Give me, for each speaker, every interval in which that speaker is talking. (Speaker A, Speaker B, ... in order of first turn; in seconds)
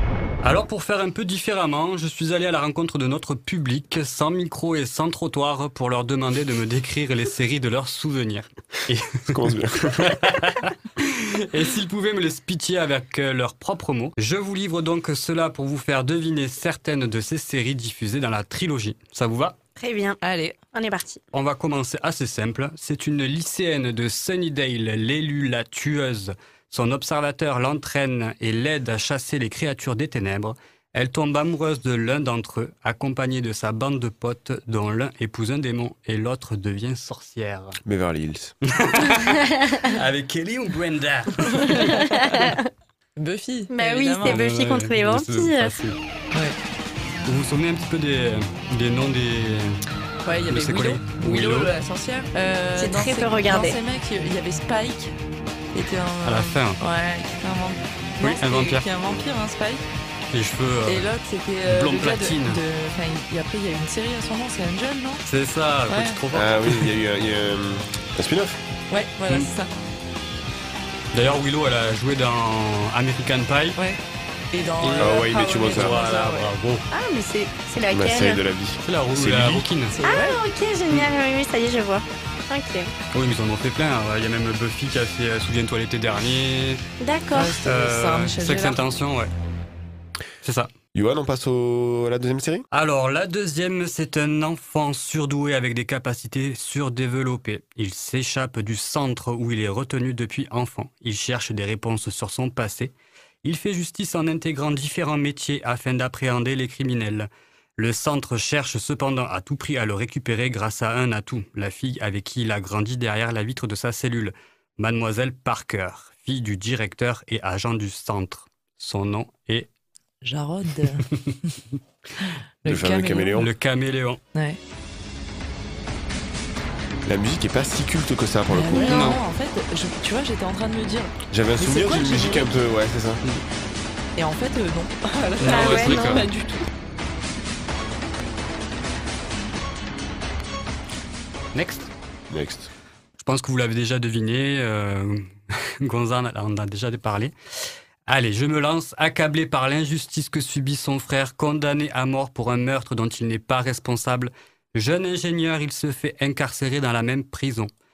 Speaker A: 0.4-9.4, 10.1-19.6, 21.3-37.8, 38.8-42.0, 44.2-46.0, 47.3-49.8, 50.5-51.7, 56.2-56.8, 58.2-58.9, 60.3-61.1, 61.7-62.6, 65.3-66.8, 71.1-73.8, 74.8-76.9, 78.8-80.0, 83.1-86.8, 87.6-89.3, 90.4-90.7, 92.7-102.9, 103.4-119.7, 123.4-124.2, 128.8-129.2, 135.4-136.3, 141.5-141.9, 143.2-147.3, 148.1-157.7
Speaker B: 9.3-10.2, 37.9-38.5, 66.3-68.6, 75.0-76.0, 77.9-79.7, 91.0-92.7, 122.7-123.5, 127.1-128.9, 131.3-133.2, 142.3-142.7
Speaker C: 19.8-20.2, 20.7-21.2, 41.7-42.6, 43.7-45.7, 52.8-53.8, 76.9-78.4, 80.0-82.9, 87.0-87.6, 135.4-136.3
Speaker D: 20.2-20.6, 43.2-44.4, 50.2-55.1, 55.7-59.8, 60.9-65.2, 65.9-66.2, 68.9-69.7, 74.5-76.5, 79.9-80.4, 87.3-88.8, 120.2-121.5, 122.6-123.4, 124.3-124.6, 128.5-132.4, 134.2-136.7